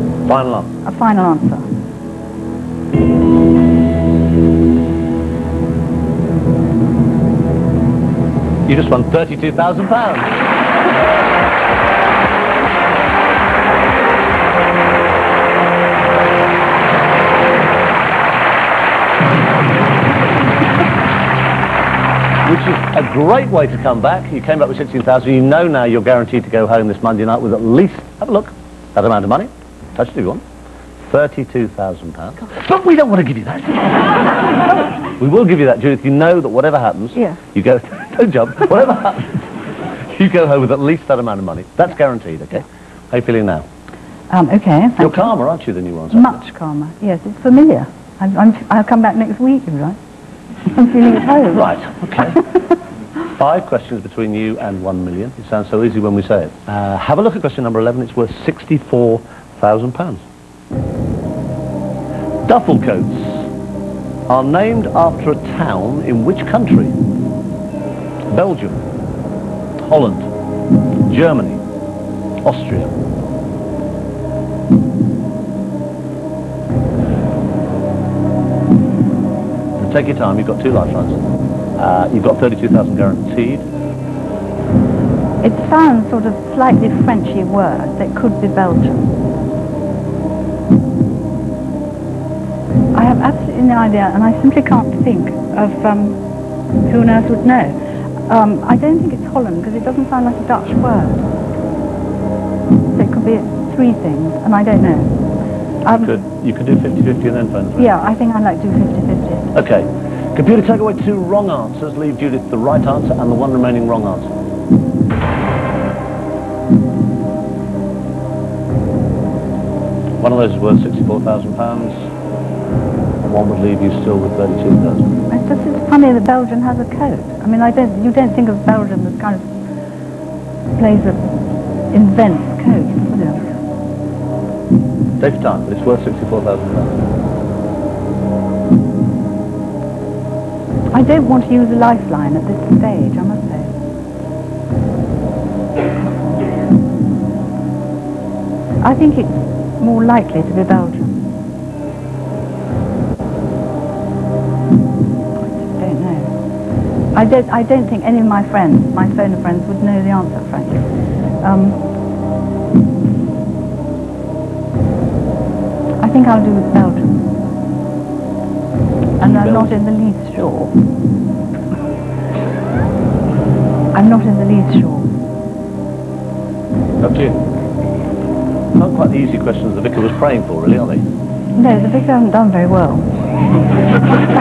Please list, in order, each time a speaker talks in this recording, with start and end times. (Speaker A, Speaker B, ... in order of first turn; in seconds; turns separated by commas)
Speaker A: 0.3-0.7, Speaker B: 0.8-1.6, Speaker A: 8.7-10.3, Speaker A: 22.4-30.4, Speaker A: 31.1-34.3, Speaker A: 35.2-39.5, Speaker A: 40.1-43.6, Speaker B: 44.3-45.4, Speaker A: 45.0-46.4, Speaker B: 46.1-50.0, Speaker B: 50.7-51.8, Speaker A: 51.5-52.4, Speaker A: 53.4-60.2, Speaker A: 62.5-63.5, Speaker A: 64.3-66.9, Speaker A: 68.3-68.8, Speaker A: 69.8-70.3, Speaker A: 71.1-71.6, Speaker A: 72.4-72.9, Speaker A: 79.8-81.2, Speaker A: 81.8-83.6, Speaker B: 85.4-89.1, Speaker B: 92.9-96.2, Speaker B: 96.8-97.8, Speaker B: 98.3-101.2, Speaker B: 102.9-105.1, Speaker B: 105.8-106.2, Speaker A: 105.9-107.9, Speaker B: 107.8-109.5, Speaker A: 109.5-114.3, Speaker A: 120.2-122.0, Speaker A: 123.3-125.1, Speaker B: 125.3-129.4, Speaker B: 130.8-131.2, Speaker B: 131.9-133.4, Speaker A: 135.2-137.0, Speaker B: 140.9-143.7, Speaker B: 148.8-151.2, Speaker B: 155.5-156.3, Speaker B: 157.1-160.9, Speaker B: 161.4-161.8, Speaker B: 166.0-167.3, Speaker B: 169.2-170.7, Speaker A: 169.2-169.8, Speaker B: 173.9-175.1, Speaker A: 177.0-177.4, Speaker A: 178.8-181.0, Speaker B: 181.6-183.1